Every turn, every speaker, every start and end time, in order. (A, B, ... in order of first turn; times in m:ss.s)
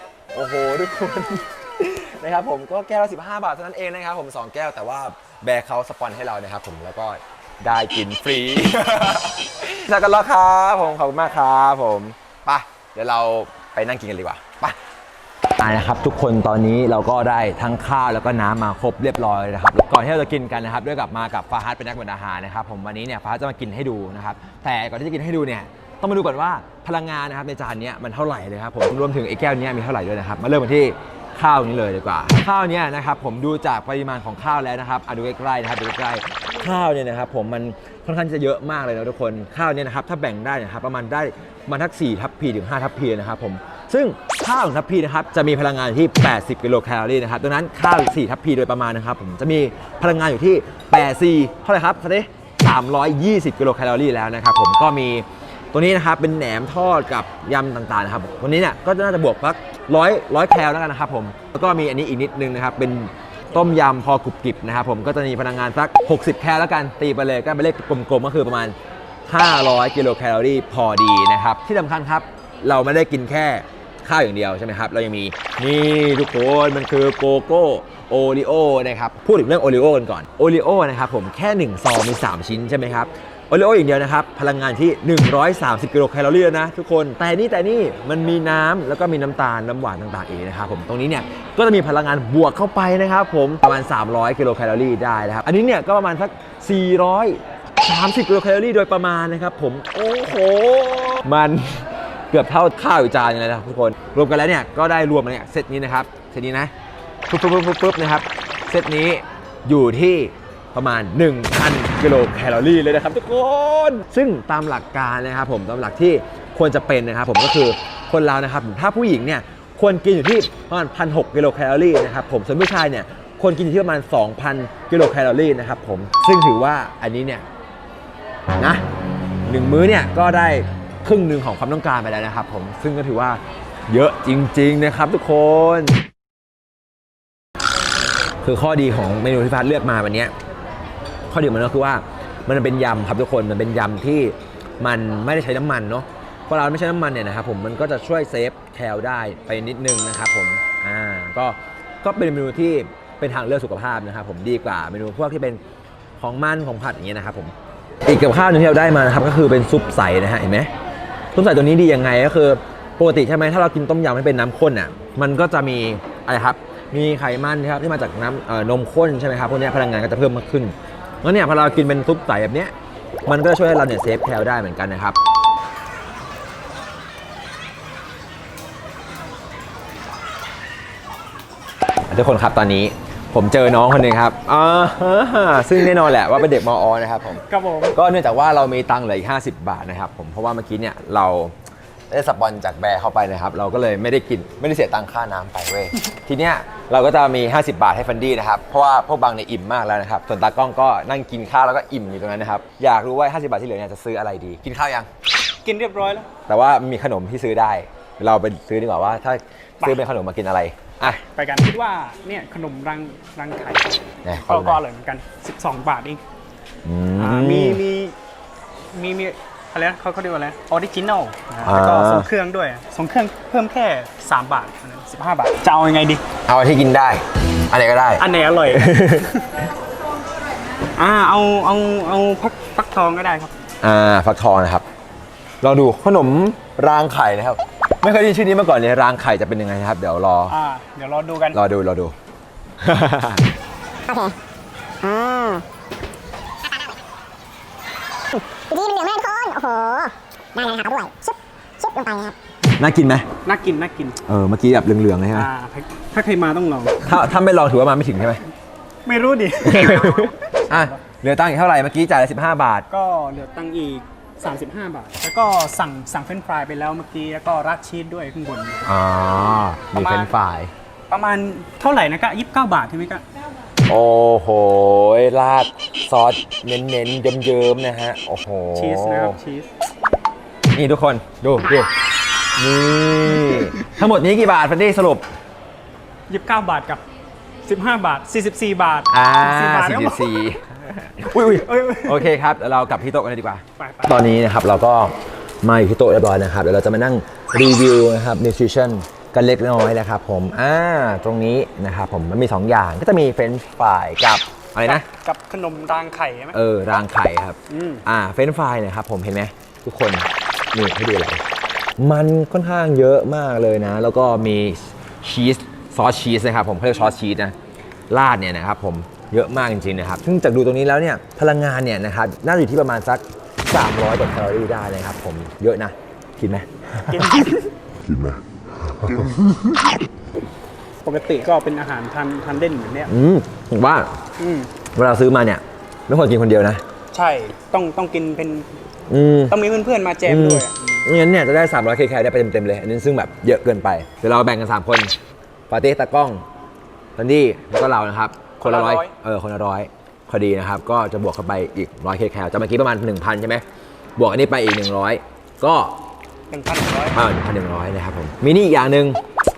0:00.3-0:14.8 A
0:15.6-1:08.7 A
1:09.3-1:46.7 A
1:47.3-2:07.4 A
2:09.4-2:16.0 A
2:18.4-2:20.3 A
2:21.3-2:35.6 A
2:36.2-2:37.5 A
2:38.0-2:40.7 A
2:41.3-2:52.7 A
2:53.3-2:55.2 A
3:02.1-3:11.5 A
3:07.4-3:08.0 B
3:12.1-3:25.1 A
3:25.6-3:26.3 B
3:26.5-3:31.2 A
3:31.0-3:36.2 B
3:34.2-3:34.8 A
3:36.8-3:37.8 A
3:37.2-3:38.1 B
3:38.9-3:46.2 B
3:41.6-3:42.3 A
3:46.4-3:49.3 A
3:48.2-3:49.2 B
3:51.0-3:53.5 B
3:53.8-3:54.8 A
3:55.6-4:00.6 A
4:00.5-4:01.6 B
4:01.5-4:02.1 A
4:02.8-4:03.4 A
4:04.1-4:04.4 C
4:05.0-4:05.6 C
4:06.6-4:06.9 C
4:08.3-4:12.3 C
4:12.8-4:13.3 A
4:13.4-4:14.2 B
4:14.2-4:15.5 A
4:15.3-4:17.0 B
4:17.0-4:18.4 A
4:19.0-4:21.0 B
4:19.6-4:22.8 A
4:22.9-4:28.8 B
4:28.8-4:30.7 A
4:30.0-4:30.3 B
4:31.1-4:33.2 B
4:33.9-4:39.4 A
4:38.7-4:39.7 B
4:40.7-4:41.9 A
4:42.6-4:45.2 A
4:46.3-4:47.0 B
4:47.6-4:50.3 B
4:49.1-5:05.0 A
4:51.5-4:52.3 B
4:53.8-4:54.2 B
5:04.8-5:06.6 B
5:06.5-5:11.4 A
5:07.7-5:08.0 B
5:12.0-5:17.5 A
5:18.1-5:26.7 A
5:27.1-5:27.7 B
5:31.0-5:33.1 B
5:33.1-5:34.1 A
5:34.4-5:34.7 B
5:34.9-5:36.8 A
5:37.1-5:38.7 B
5:39.1-5:39.6 A
5:39.5-5:41.0 B
5:40.2-5:45.1 A
5:45.7-5:46.4 A
5:47.2-5:53.6 A
5:48.6-5:49.1 B
5:54.2-5:56.0 A
5:56.5-5:57.2 B
5:57.1-5:59.2 A